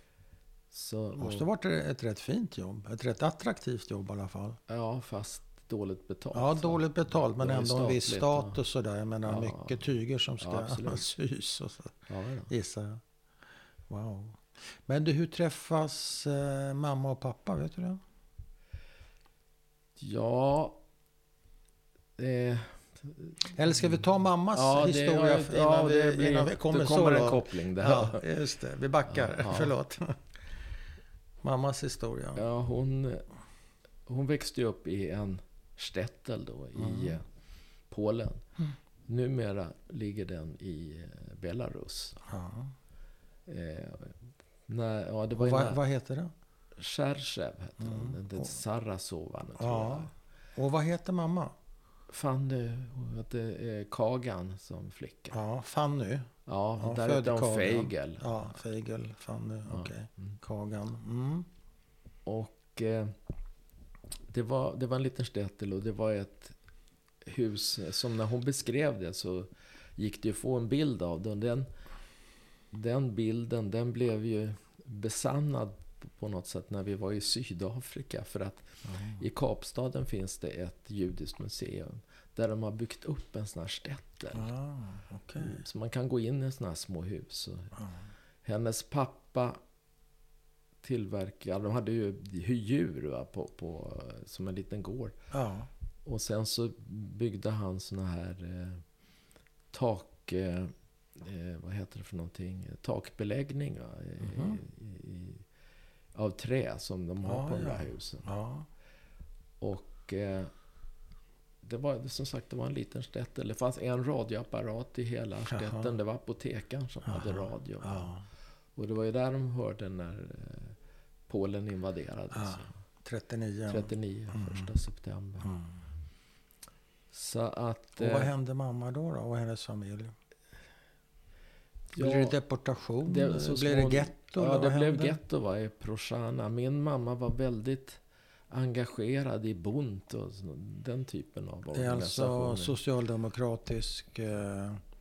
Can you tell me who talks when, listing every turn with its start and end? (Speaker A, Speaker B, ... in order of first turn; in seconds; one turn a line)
Speaker A: 0.7-1.5
Speaker B: 1.2-4.6
Speaker A: 4.7-8.6
Speaker B: 6.3-13.0
Speaker A: 9.2-11.1
Speaker A: 12.1-12.5
Speaker B: 13.9-18.0
Speaker A: 20.0-20.8
Speaker A: 22.2-24.0
Speaker B: 23.5-30.2
Speaker A: 24.5-28.2
Speaker A: 29.1-29.8
Speaker B: 31.4-32.5
Speaker A: 32.4-33.2
Speaker A: 34.1-37.2
Speaker B: 36.8-37.2
Speaker A: 37.9-38.5
Speaker A: 39.1-42.2
Speaker B: 42.3-42.7
Speaker A: 43.5-45.8
Speaker B: 45.3-46.3
Speaker A: 46.8-50.1
Speaker B: 47.8-48.5
Speaker B: 49.6-51.5
Speaker A: 52.1-55.4
Speaker B: 55.3-61.5
Speaker A: 56.5-58.6
Speaker A: 59.7-59.9
Speaker A: 62.3-63.2
Speaker A: 64.3-66.6
Speaker A: 67.2-71.7
Speaker A: 72.7-84.5
Speaker B: 78.8-79.2
Speaker B: 84.3-85.6
Speaker A: 85.4-87.7
Speaker B: 87.8-88.0
Speaker A: 88.4-89.6
Speaker A: 90.8-95.2
Speaker B: 95.3-95.7
Speaker A: 96.0-98.8
Speaker A: 99.7-105.5
Speaker B: 104.2-104.6
Speaker A: 106.1-108.3
Speaker B: 107.2-108.7
Speaker A: 109.6-110.5
Speaker A: 111.6-118.1
Speaker B: 115.5-115.9
Speaker B: 117.1-118.2
Speaker A: 118.8-120.8
Speaker A: 121.3-122.7
Speaker B: 122.3-124.7
Speaker A: 123.7-125.5
Speaker B: 125.4-125.8
Speaker A: 127.1-128.3
Speaker B: 128.0-130.2
Speaker A: 131.9-132.4
Speaker B: 132.0-135.2
Speaker A: 133.0-142.8
Speaker B: 141.7-144.8